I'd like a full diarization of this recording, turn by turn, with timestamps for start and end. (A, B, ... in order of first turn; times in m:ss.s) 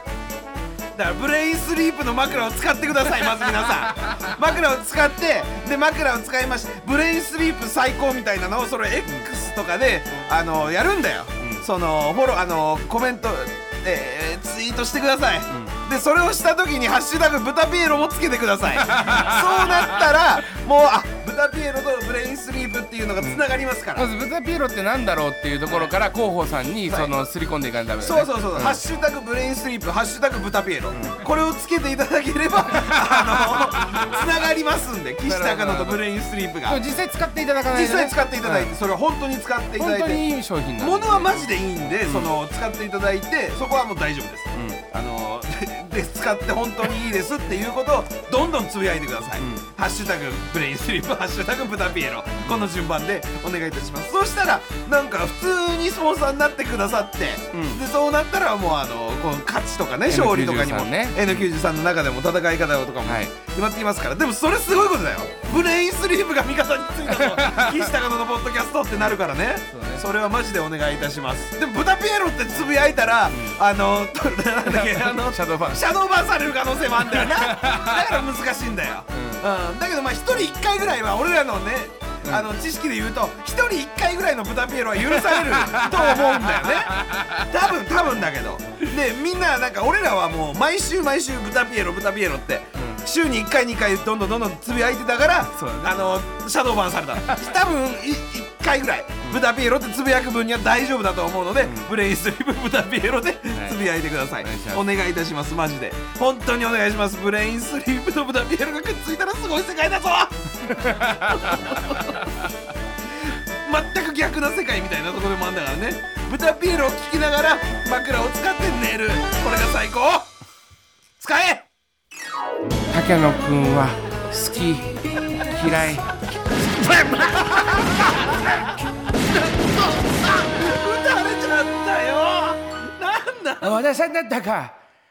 0:00.9-0:24.1 A
0:03.8-0:04.3 B
0:15.5-0:15.7 B
0:18.7-0:20.1 B
0:24.0-0:28.8 B
0:26.9-0:27.1 A
0:28.0-0:36.8 A
0:30.9-0:31.2 B
0:32.7-0:34.0 B
0:35.2-0:36.0 B
0:36.6-0:38.7 B
0:37.7-0:40.2 A
0:39.8-0:41.5 B
0:40.8-1:52.3 A
0:42.0-0:42.3 B
0:44.5-0:44.8 B
0:49.4-0:49.6 B
0:52.4-0:52.7 B
0:57.5-0:57.8 B
1:00.1-1:01.5 B
1:03.0-1:03.3 B
1:07.0-1:07.9 B
1:09.7-1:10.0 B
1:13.3-1:13.6 B
1:14.7-1:15.8 B
1:17.1-1:18.2 B
1:19.1-1:19.4 B
1:22.2-1:22.5 B
1:25.0-1:27.5 B
1:32.7-1:33.0 B
1:35.5-1:36.0 B
1:41.6-1:41.9 B
1:43.5-1:43.8 B
1:44.4-1:44.8 B
1:50.7-1:52.5 B
1:53.1-2:00.3 A
2:01.2-2:01.7 A
2:02.8-2:06.1 B
2:06.8-2:08.3 B
2:07.1-2:08.7 A
2:09.3-2:13.8 A
2:13.6-2:14.8 B